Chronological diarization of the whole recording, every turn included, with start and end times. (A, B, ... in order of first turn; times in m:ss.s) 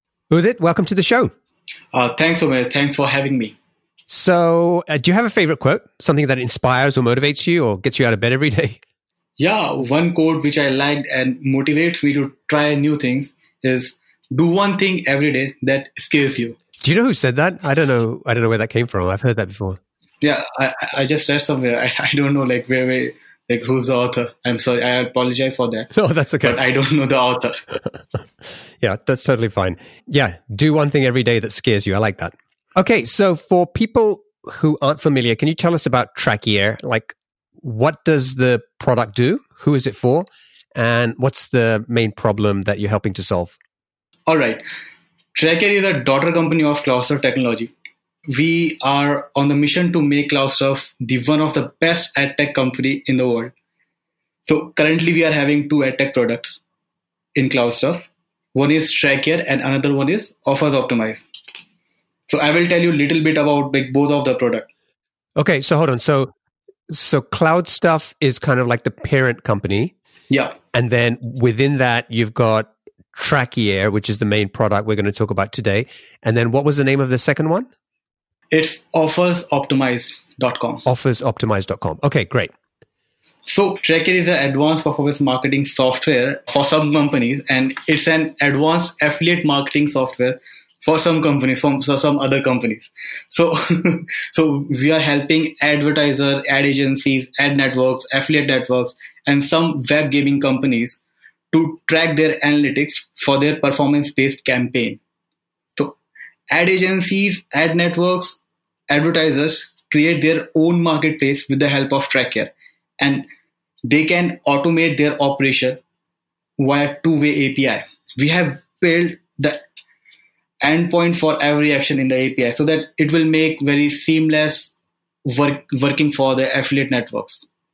0:00.3-0:01.3 A
0:01.9-0:03.6 B
0:04.1-0:08.8 A
0:09.4-0:16.6 B
0:16.8-0:19.8 A
0:20.2-0:27.6 B
0:25.9-0:26.6 A
0:28.8-0:43.6 A
0:44.3-0:44.6 B
0:45.4-0:47.7 B
0:48.3-0:53.5 B
0:54.5-0:56.6 B
0:57.4-1:01.3 B
1:02.3-1:04.7 B
1:05.4-1:06.3 A
1:06.9-1:09.9 A
1:10.3-1:10.6 B
1:10.7-1:17.7 A
1:18.5-1:20.8 B
1:20.8-1:22.5 A
1:23.4-1:45.0 B
1:46.5-1:53.3 B
1:53.8-1:55.8 B
1:56.6-1:59.7 B
2:00.6-2:04.7 B
2:05.3-2:07.5 B